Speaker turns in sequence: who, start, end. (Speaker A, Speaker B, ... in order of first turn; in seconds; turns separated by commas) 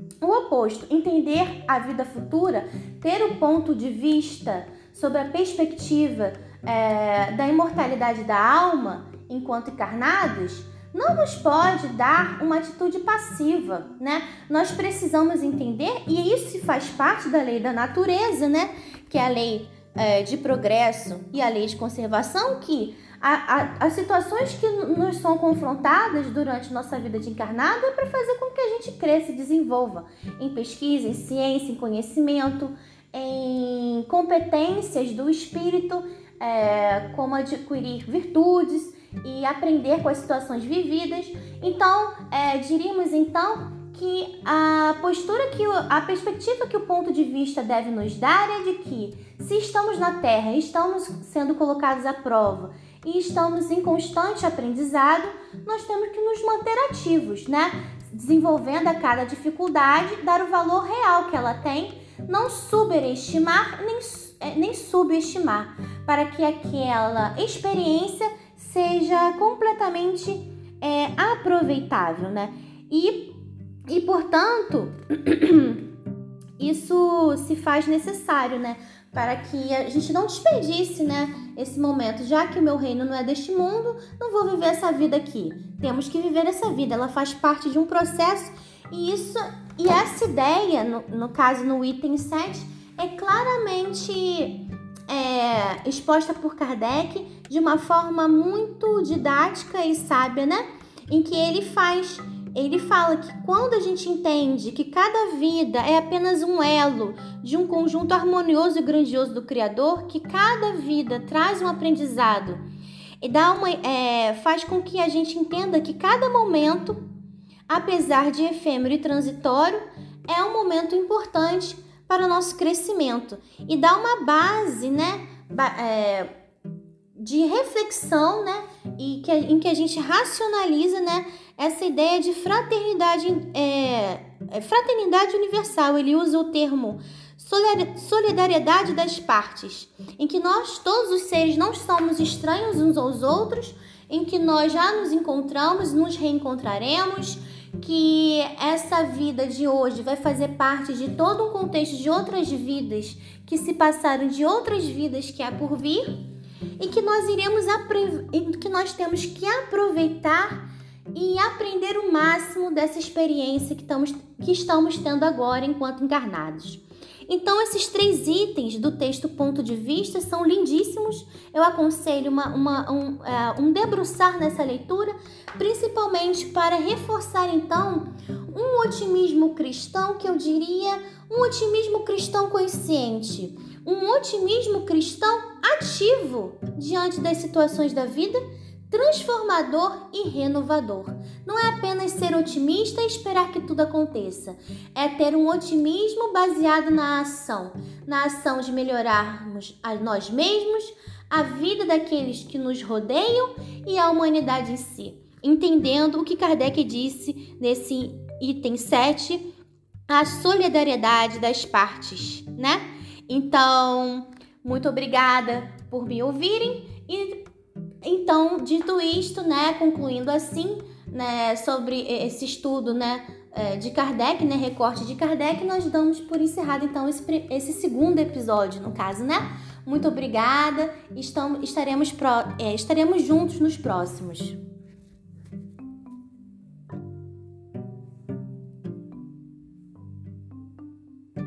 Speaker A: 0.2-73.3, Speaker A: 73.9-75.8, Speaker A: 76.6-112.6, Speaker A: 113.2-117.0, Speaker A: 117.7-126.3, Speaker A: 127.2-156.3, Speaker A: 156.8-160.6, Speaker A: 161.1-209.4, Speaker A: 210.1-217.4, Speaker A: 218.0-234.6